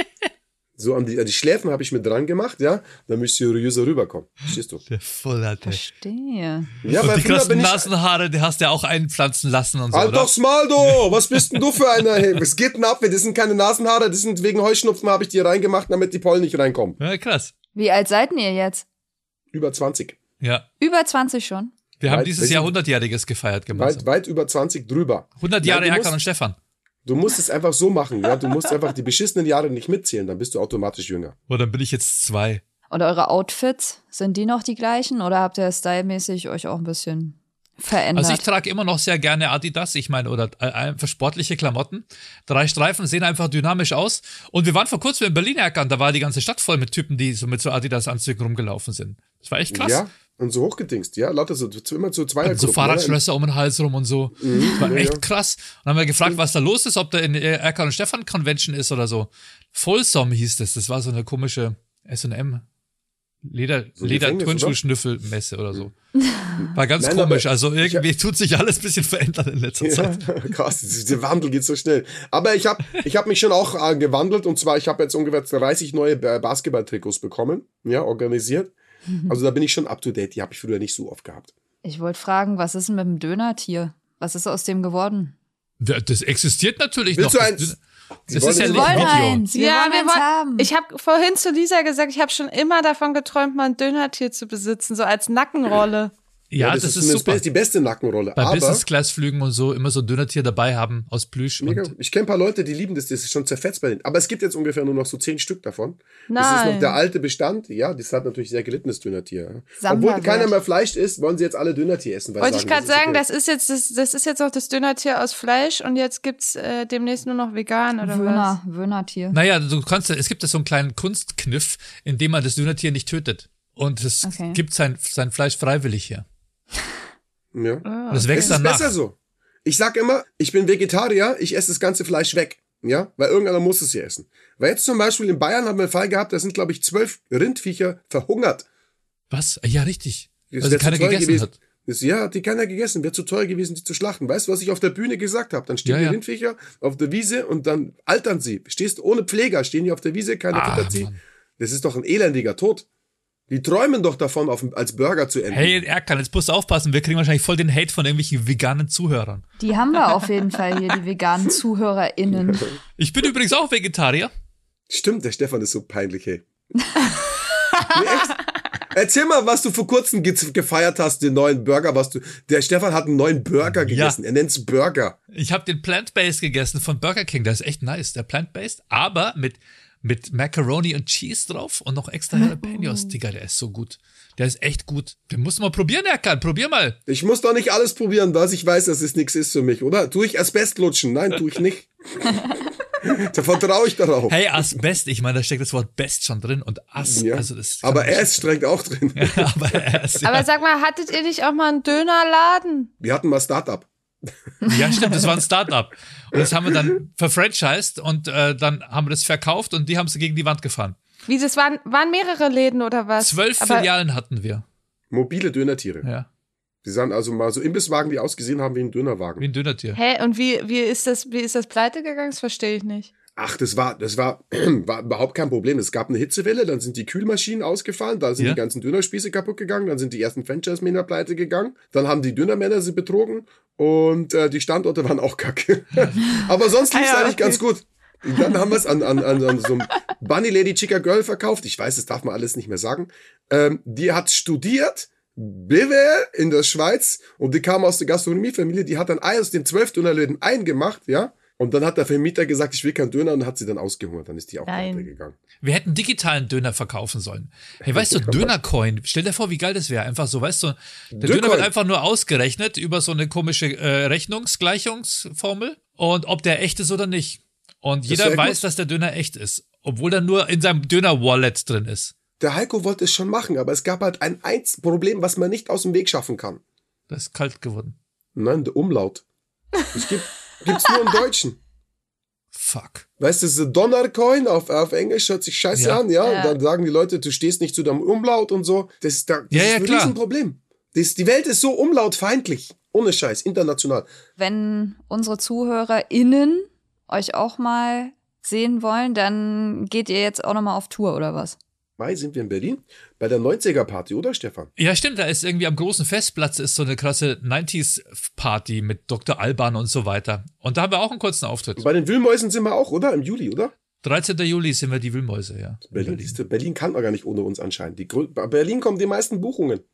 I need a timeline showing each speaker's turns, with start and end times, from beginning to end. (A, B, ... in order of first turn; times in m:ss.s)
0:00.8-0:04.8 A
0:04.9-0:05.8 B
0:05.6-0:06.7 C
0:06.8-0:07.9 A
0:06.9-0:12.3 B
0:09.9-0:17.0 A
0:17.0-0:17.5 B
0:17.8-0:18.9 C
0:19.5-0:20.2 A
0:20.8-0:21.7 C
0:22.0-0:24.0 B
0:22.0-0:22.7 A
0:23.7-0:26.2 A
0:25.4-0:26.6 B
0:27.1-0:31.4 A
0:31.5-0:32.6 B
0:32.9-0:38.4 C
0:38.2-0:50.0 B
0:49.7-0:53.2 A
0:52.4-1:02.6 B
0:54.4-0:55.2 A
1:03.4-1:05.9 B
1:04.0-1:04.8 A
1:06.6-1:08.0 A
1:06.8-1:10.4 B
1:09.8-1:18.7 A
1:19.3-1:21.5 A
1:21.8-1:25.4 C
1:25.8-1:29.4 B
1:27.1-1:27.7 A
1:28.3-1:29.2 A
1:28.6-1:30.7 C
1:29.5-1:36.1 D
1:36.5-1:37.4 B
1:36.6-1:38.8 A
1:38.4-1:41.9 B
1:41.6-1:53.2 A
1:46.3-1:47.0 D
1:49.8-1:50.6 C
1:52.4-1:58.5 D
1:58.0-1:59.4 C
1:59.3-2:06.2 B
2:04.2-2:04.6 C
2:07.5-2:18.7 A
2:07.8-2:08.6 D
2:08.1-2:09.0 B
2:19.3-2:21.6 B
2:20.5-2:32.9 A
2:25.9-2:26.2 B
2:30.5-2:31.2 B
2:33.5-2:35.8 A
2:35.5-2:39.4 B
2:39.6-2:42.7 C
2:42.4-2:42.8 A
2:43.0-2:44.3 B
2:44.9-2:46.4 A
2:47.9-2:48.4 A
2:48.9-2:55.2 A
2:53.7-2:54.2 B
2:55.3-3:07.0 B
3:07.1-3:14.4 A
3:14.3-3:18.5 B
3:17.0-3:20.0 A
3:19.2-3:20.5 B
3:20.2-3:22.9 D
3:23.0-3:23.9 A
3:24.6-3:31.0 B
3:31.3-3:33.9 D
3:33.2-3:34.6 B
3:35.1-3:36.0 A
3:36.8-3:39.4 A
3:39.4-3:40.0 B
3:40.0-3:43.1 D
3:43.4-4:15.4 A
3:56.9-3:57.6 D
4:14.7-4:15.1 D
4:15.6-4:32.2 B
4:17.8-4:18.5 A
4:21.1-4:21.7 A
4:28.0-4:28.6 A
4:32.4-4:36.6 A
4:37.1-4:38.0 B
4:38.4-4:39.2 A
4:39.9-4:41.6 A
4:42.6-4:43.0 B
4:43.2-4:54.1 A
4:45.8-4:46.0 B
4:46.2-4:46.6 D
4:49.5-4:50.2 B
4:54.4-5:01.6 C
5:02.0-5:04.7 A
5:04.8-5:11.8 B
5:11.8-5:13.7 A
5:14.0-5:16.4 B
5:15.9-5:19.8 A